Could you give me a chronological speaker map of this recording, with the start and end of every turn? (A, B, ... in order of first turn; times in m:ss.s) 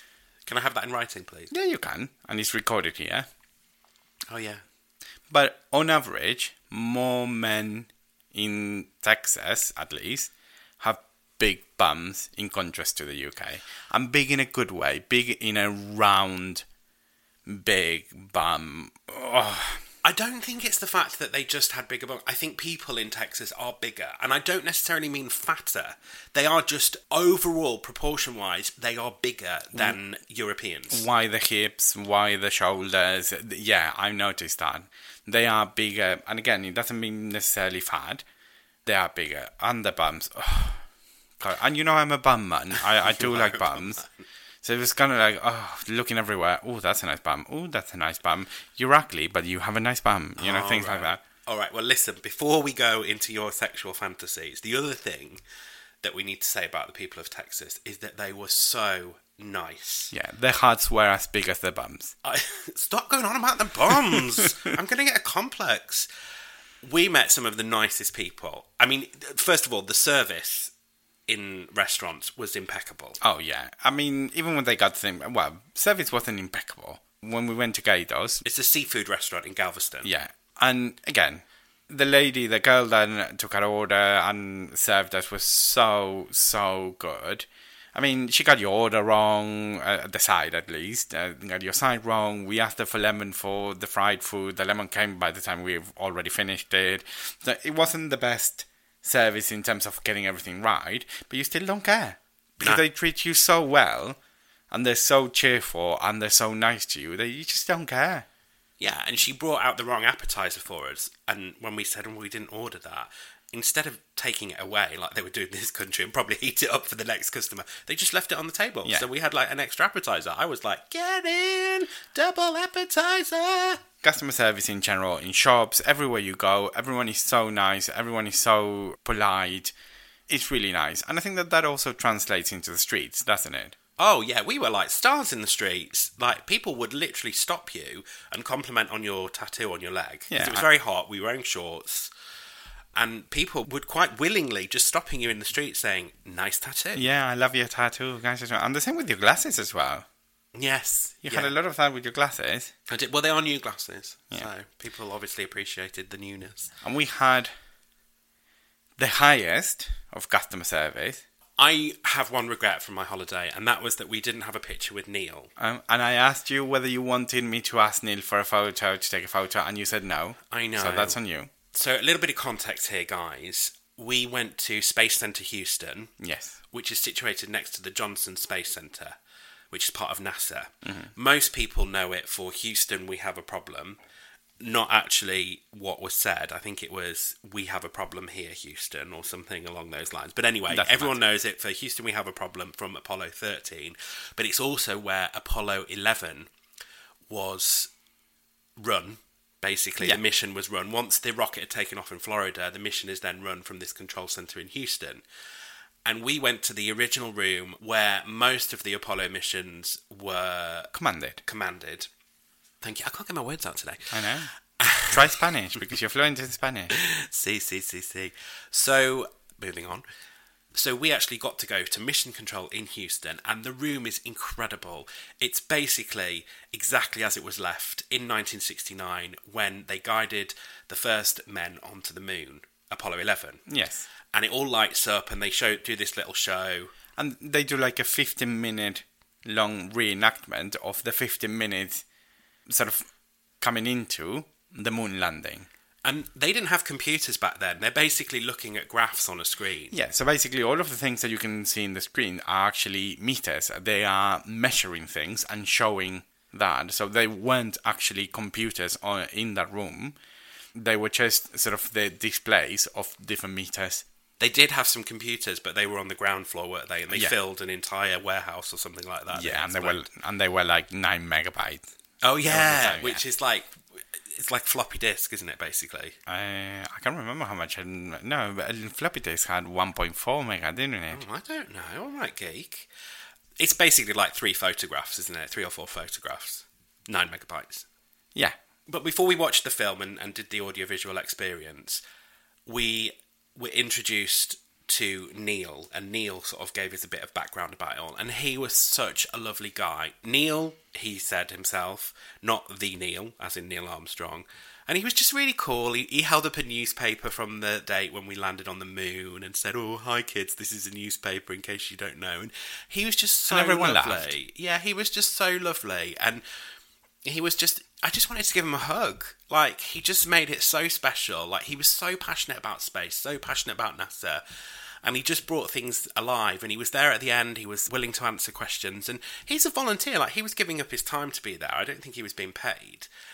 0:00.4-0:01.5 A
0:01.5-0:03.3 B
0:04.3-0:04.6 A
0:05.3-0:16.6 B
0:17.4-0:19.8 B
0:20.0-0:31.1 A
0:30.9-0:38.2 B
0:38.8-0:40.8 B
0:41.4-0:44.0 B
0:42.8-0:44.1 A
0:44.6-0:51.2 B
0:50.4-0:55.4 A
0:56.0-1:00.1 A
1:00.1-1:02.1 B
1:02.2-1:06.1 A
1:06.8-1:10.7 A
1:11.3-1:13.2 A
1:13.2-1:18.4 B
1:18.4-1:20.1 A
1:20.0-1:44.2 B
1:44.7-1:48.2 B
1:48.8-2:03.8 A
2:04.0-2:09.7 B
2:10.3-2:13.8 B
2:14.0-2:22.1 A
2:20.3-2:20.6 B
2:22.9-2:27.0 A
2:26.9-2:30.0 B
2:30.5-2:31.5 A
2:31.2-2:32.7 B
2:32.9-2:36.7 A
2:36.8-2:37.5 B
2:39.0-2:41.2 B
2:41.6-2:45.5 A
2:45.6-2:51.5 B
2:50.5-2:51.2 A
2:51.7-2:56.1 A
2:56.2-2:56.6 B
2:56.7-2:59.2 A
2:59.7-3:04.0 A
3:00.8-3:01.1 B
3:04.6-3:16.5 A
3:10.7-3:11.2 B
3:17.3-3:17.9 A
3:18.8-3:25.2 A
3:26.0-3:30.9 A
3:30.9-3:31.4 B
3:31.4-3:32.1 A
3:32.8-3:35.4 A
3:34.1-3:37.0 B
3:36.9-3:40.0 A
3:40.7-3:53.6 A
3:53.7-3:54.1 B
3:54.3-3:56.9 A
3:57.2-4:02.0 B
4:02.7-4:03.1 B
4:03.6-4:05.7 B
4:06.0-4:09.9 A
4:09.9-4:20.2 B
4:20.7-4:24.0 B
4:24.4-4:30.1 A
4:29.3-4:31.8 B
4:32.2-4:36.2 A
4:32.4-4:33.2 B
4:36.2-4:41.2 B
4:41.1-4:42.9 A
4:43.6-4:47.8 A
4:48.9-4:52.0 A
4:52.6-5:16.4 A
5:13.5-5:14.3 B
5:17.2-5:24.4 A
5:25.0-5:33.1 A